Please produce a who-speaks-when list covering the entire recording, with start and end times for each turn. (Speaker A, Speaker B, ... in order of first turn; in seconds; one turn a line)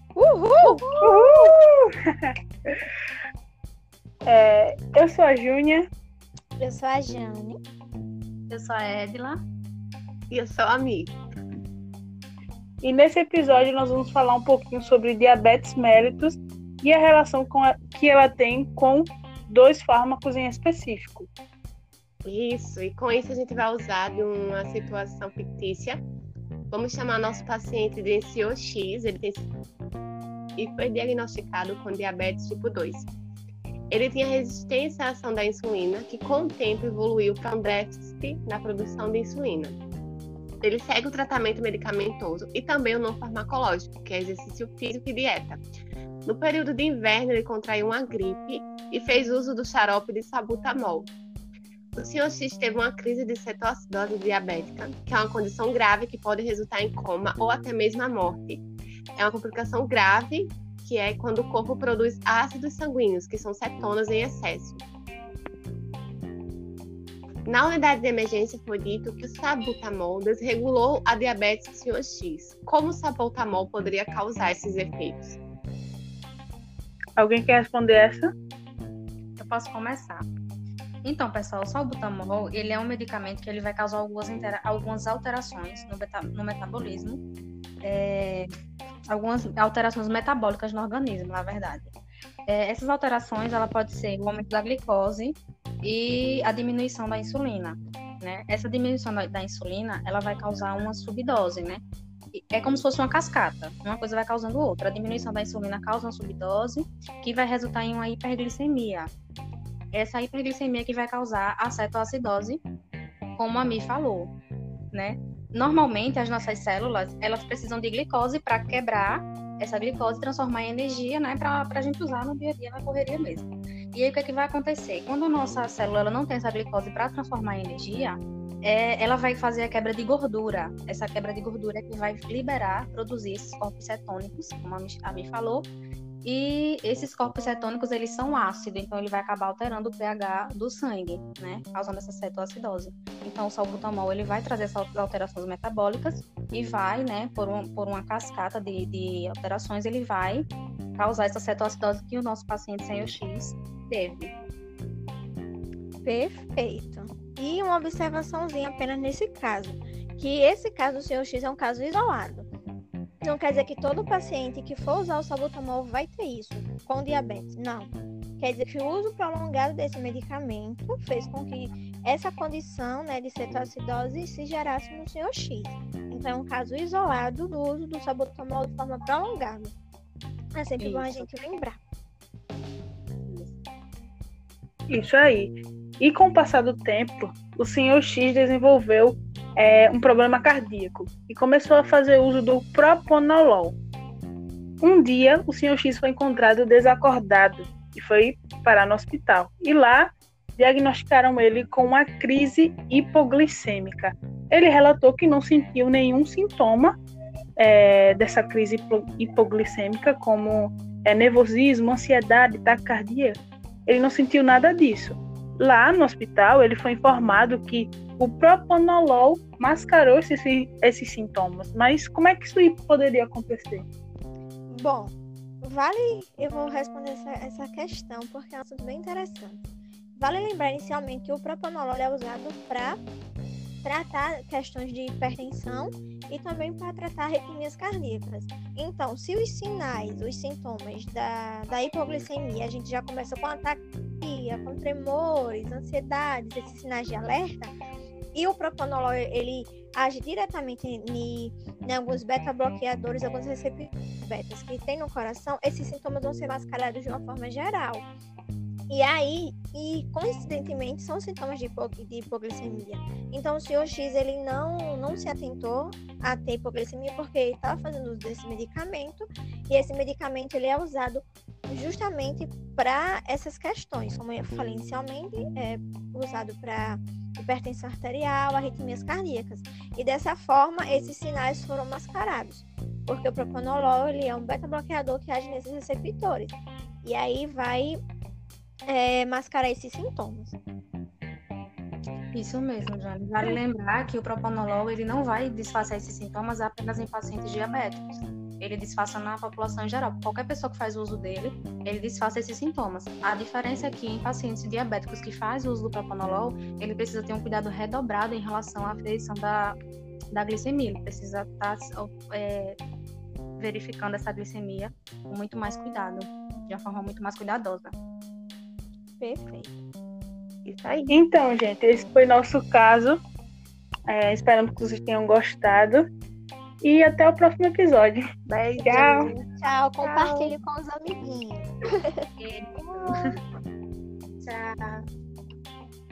Speaker A: 0.1-1.4
Speaker B: 1.0-1.8
Speaker B: 4.2-5.9
Speaker A: 6.6-7.6
Speaker C: 8.5-9.4
Speaker D: 10.3-11.1
Speaker B: 12.8-21.3
Speaker D: 22.2-26.0
Speaker D: 26.7-29.5
Speaker D: 30.6-33.1
Speaker D: 33.9-39.8
Speaker D: 40.6-45.6
Speaker D: 46.2-51.1
Speaker D: 51.9-58.6
Speaker D: 59.1-64.8
Speaker D: 67.4-75.4
Speaker B: 77.2-78.3
Speaker C: 79.4-80.2
Speaker C: 81.0-87.2
Speaker C: 87.8-88.5
Speaker C: 89.1-91.9
Speaker C: 92.5-109.1
Speaker C: 109.9-112.6
Speaker C: 113.3-114.3
Speaker C: 114.9-135.7
Speaker C: 136.2-154.3
Speaker A: 156.0-162.5
Speaker A: 163.2-179.7
Speaker A: 180.5-181.8
Speaker C: 180.8-181.3
Speaker C: 183.2-183.5
Speaker B: 184.9-193.7
Speaker B: 194.8-207.0
Speaker B: 207.6-223.8
Speaker A: 224.7-229.6
Speaker A: 230.2-233.0
Speaker A: 233.8-247.7
Speaker A: 248.3-258.1
Speaker A: 258.9-288.0
Speaker A: 288.9-290.6
Speaker C: 292.3-309.8
Speaker C: 310.3-312.8
Speaker C: 313.6-317.9
Speaker A: 319.2-319.8
Speaker D: 320.6-321.1
Speaker B: 321.1-323.2
Speaker B: 324.1-326.1
Speaker B: 326.8-329.3
Speaker D: 328.5-329.1
Speaker A: 328.8-333.3
Speaker D: 330.0-330.5
Speaker C: 332.4-333.4
Speaker C: 334.4-335.1